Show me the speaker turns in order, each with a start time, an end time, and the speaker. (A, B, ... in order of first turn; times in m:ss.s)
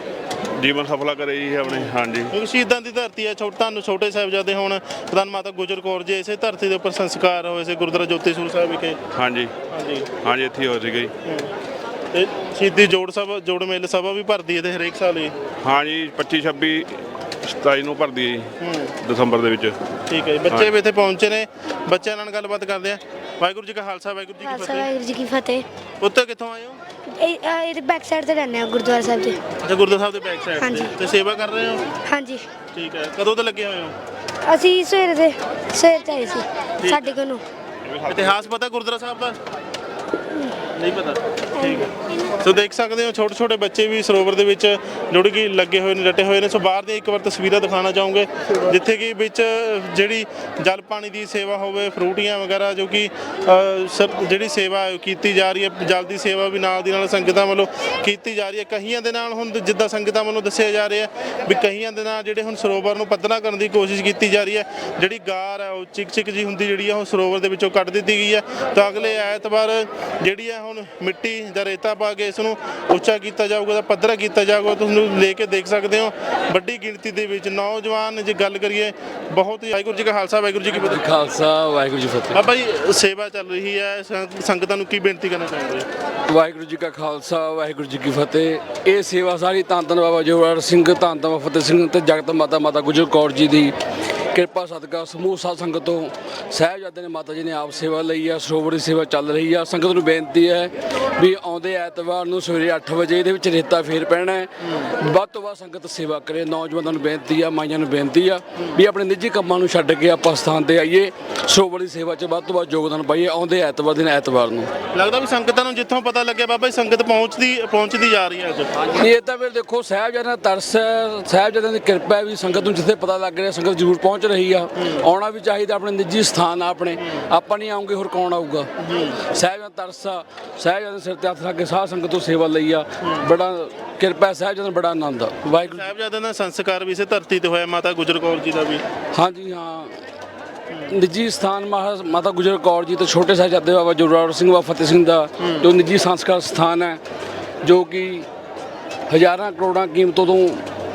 0:00.6-0:02.3 A
0:01.6-0:09.0 B
0:09.2-0:09.5 A
0:09.7-0:10.1 B
0:10.2-0:11.1 A
0:11.2-0:11.5 B
0:12.1-0:15.3 B
0:15.6-0:16.9 A
0:17.5-0:18.5 A
0:18.6-0:18.9 B
0:19.0-0:19.8 A
0:20.1-0:25.0 B
0:24.4-0:25.6 C
0:26.0-0:26.8 B
0:27.2-0:29.4 C
0:29.6-0:31.8 B
0:30.6-0:30.9 C
0:32.1-0:32.4 C
0:32.7-0:34.0 B
0:34.5-0:37.4 C
0:36.8-0:37.2 B
0:38.0-0:38.4 A
0:38.1-0:39.4 B
0:40.8-1:21.0 B
1:20.8-1:22.4 D
1:22.3-1:25.9 B
1:26.3-1:33.7 D
1:34.3-1:54.7 D
1:54.9-1:58.8 B
1:59.0-2:08.7 D
2:07.0-2:07.3 B
2:08.8-2:09.2 B
2:09.2-2:15.8 D
2:13.0-2:13.3 B
2:15.6-2:18.8 B
2:19.2-2:19.9 D
2:20.9-2:27.0 D
2:25.4-2:25.7 B
2:27.6-2:28.3 D
2:29.1-2:30.6 D